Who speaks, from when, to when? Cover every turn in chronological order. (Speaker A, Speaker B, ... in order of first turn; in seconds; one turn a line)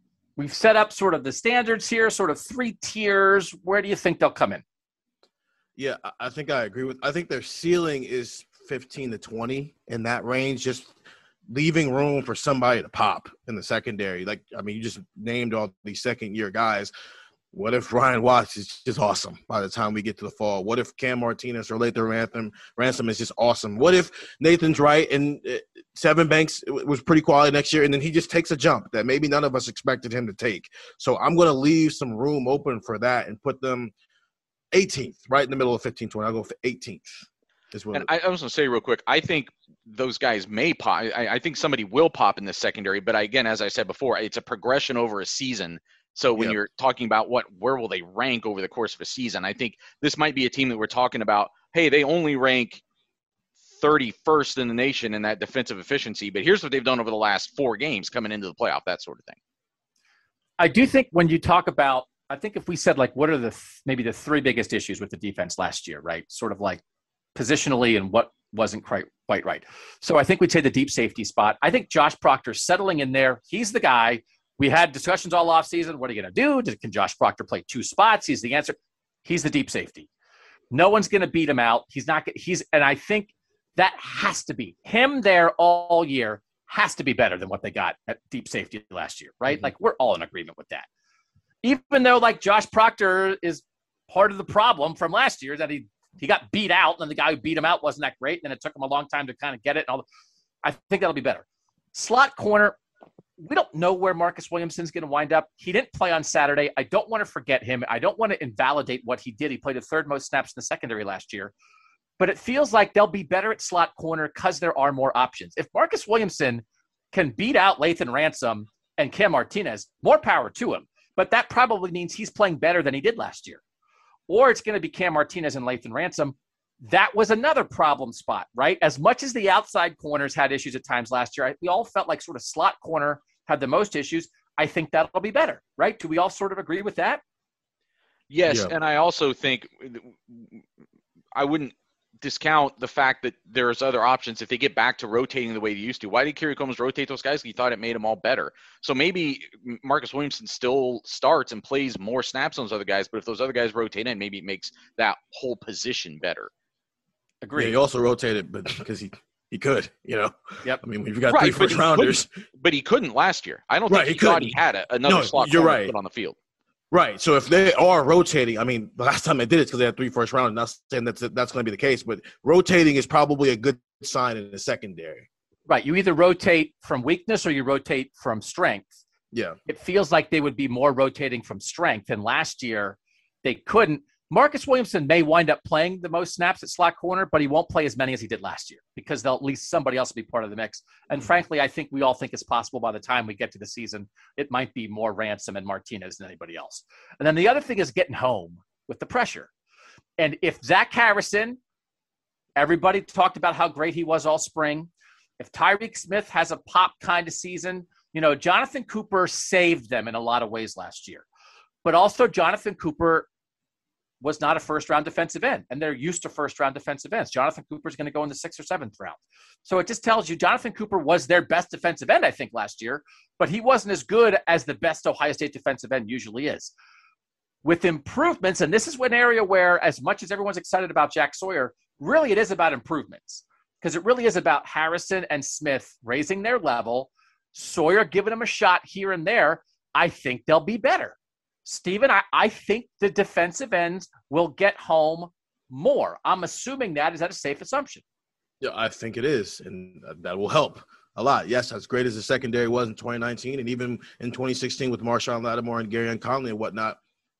Speaker A: 0.4-4.6
Speaker B: 5.8-10.9
Speaker B: 11.5-16.9
Speaker B: 17.5-33.9
Speaker B: 34.7-38.1
Speaker C: 37.9-52.8
Speaker C: 53.8-59.4
Speaker A: 60.6-66.8
Speaker A: 67.3-80.1
Speaker A: 80.7-90.9
Speaker A: 91.6-100.0
Speaker A: 100.6-102.8
Speaker A: 103.4-111.5
Speaker A: 112.2-123.6
Speaker A: 124.3-137.2
Speaker C: 138.3-140.6
Speaker B: 138.5-138.7
Speaker C: 141.3-156.5
Speaker A: 157.4-157.8
Speaker B: 157.6-162.3
Speaker C: 161.3-166.3
Speaker B: 163.9-164.5
Speaker B: 165.1-165.9
Speaker B: 166.9-175.3
Speaker A: 175.7-179.0
Speaker A: 179.7-199.5
Speaker A: 200.2-201.6
Speaker A: 202.6-204.9
Speaker A: 205.4-211.2
Speaker A: 211.8-213.3
Speaker A: 214.2-226.7
Speaker A: 227.6-248.0
Speaker B: 248.6-257.0